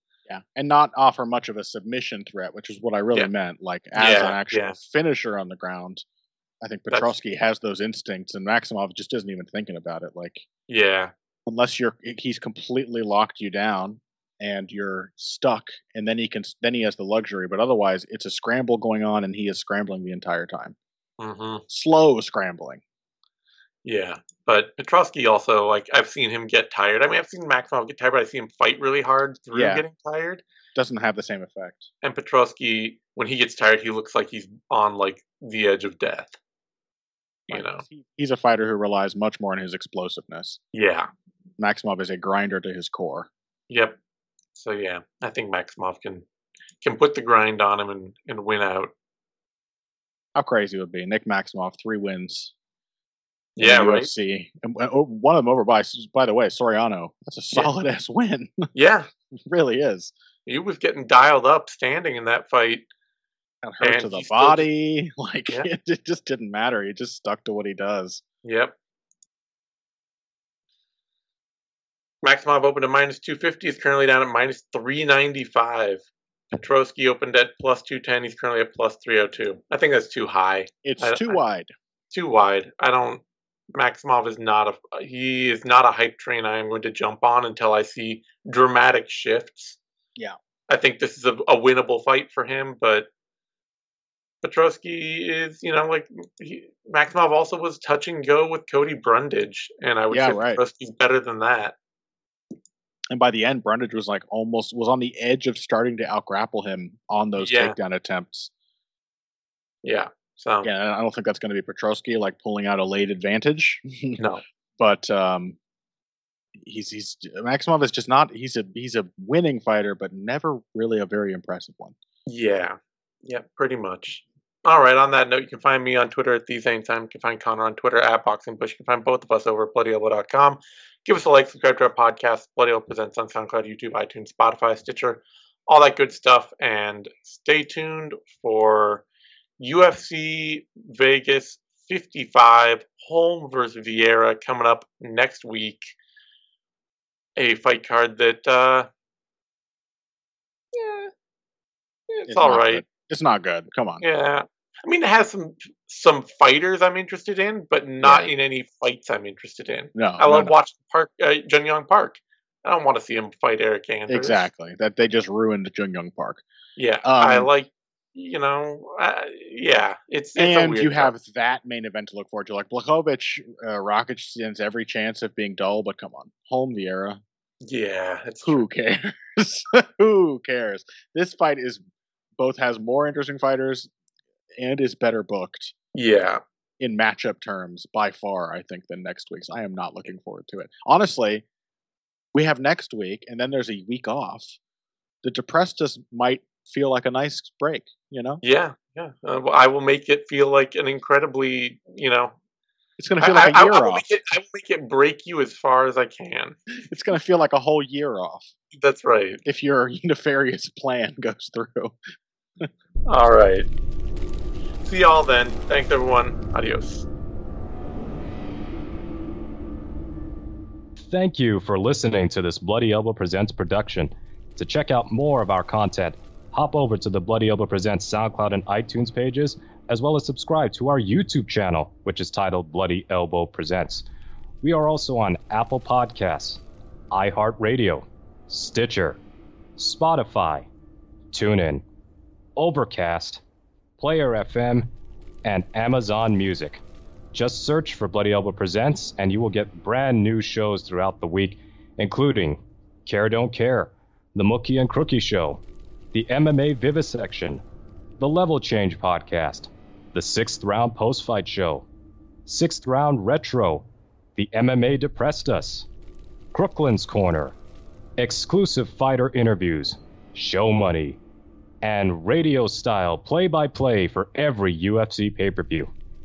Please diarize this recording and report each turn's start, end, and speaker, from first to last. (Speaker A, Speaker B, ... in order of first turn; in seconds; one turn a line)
Speaker A: 0.3-6.0
Speaker B: 4.0-4.8
Speaker A: 6.6-10.5
Speaker B: 6.9-7.2
Speaker B: 10.7-11.1
Speaker A: 11.5-20.8
Speaker B: 21.2-21.6
Speaker A: 21.7-22.8
Speaker B: 23.9-30.4
Speaker A: 29.5-29.8
Speaker A: 30.8-31.9
Speaker B: 32.0-36.4
Speaker B: 37.5-37.8
Speaker A: 37.5-40.6
Speaker B: 40.7-41.1
Speaker A: 41.6-43.3
Speaker B: 43.7-44.0
Speaker B: 44.5-46.2
Speaker B: 46.8-48.9
Speaker A: 50.4-52.5
Speaker B: 53.6-54.1
Speaker A: 53.6-58.7
Speaker B: 58.7-59.1
Speaker A: 59.4-60.1
Speaker B: 60.5-62.9
Speaker A: 63.6-68.2
Speaker B: 63.8-64.7
Speaker B: 68.4-68.8
Speaker B: 72.2-81.4
Speaker A: 80.8-81.7
Speaker B: 82.1-83.2
Speaker B: 83.7-89.8
Speaker B: 90.7-93.1
Speaker B: 94.4-101.8
Speaker A: 100.1-100.6
Speaker A: 103.1-108.5
Speaker B: 107.4-107.8
Speaker B: 109.8-110.7
Speaker A: 110.6-114.2
Speaker B: 114.2-114.4
Speaker A: 114.8-115.6
Speaker A: 116.5-122.0
Speaker B: 122.3-139.1
Speaker B: 139.6-145.9
Speaker B: 147.4-148.9
Speaker B: 150.7-151.1
Speaker B: 152.1-152.8
Speaker A: 152.3-154.0
Speaker B: 154.0-164.5
Speaker A: 158.0-158.3
Speaker A: 159.9-160.5
Speaker A: 164.1-166.4
Speaker B: 166.8-171.1
Speaker A: 167.0-167.5
Speaker A: 170.4-177.2
Speaker B: 177.6-178.7
Speaker A: 178.4-181.8
Speaker A: 182.4-183.9
Speaker A: 184.5-185.7
Speaker B: 185.9-186.4
Speaker A: 186.8-191.4
Speaker A: 192.3-194.6
Speaker A: 195.2-198.4
Speaker B: 198.4-202.4
Speaker A: 203.0-204.1
Speaker B: 203.2-206.6
Speaker A: 206.8-208.5
Speaker B: 208.7-209.4
Speaker A: 209.4-212.0
Speaker B: 213.1-213.7
Speaker B: 214.8-217.1
Speaker C: 221.0-234.1
Speaker C: 234.6-239.2
Speaker C: 239.8-240.7
Speaker C: 241.3-241.8
Speaker C: 242.6-243.4
Speaker C: 244.0-244.9
Speaker C: 245.4-257.6
Speaker C: 258.2-261.9
Speaker C: 262.5-265.9
Speaker C: 266.5-267.6
Speaker C: 268.2-271.2
Speaker C: 271.8-275.9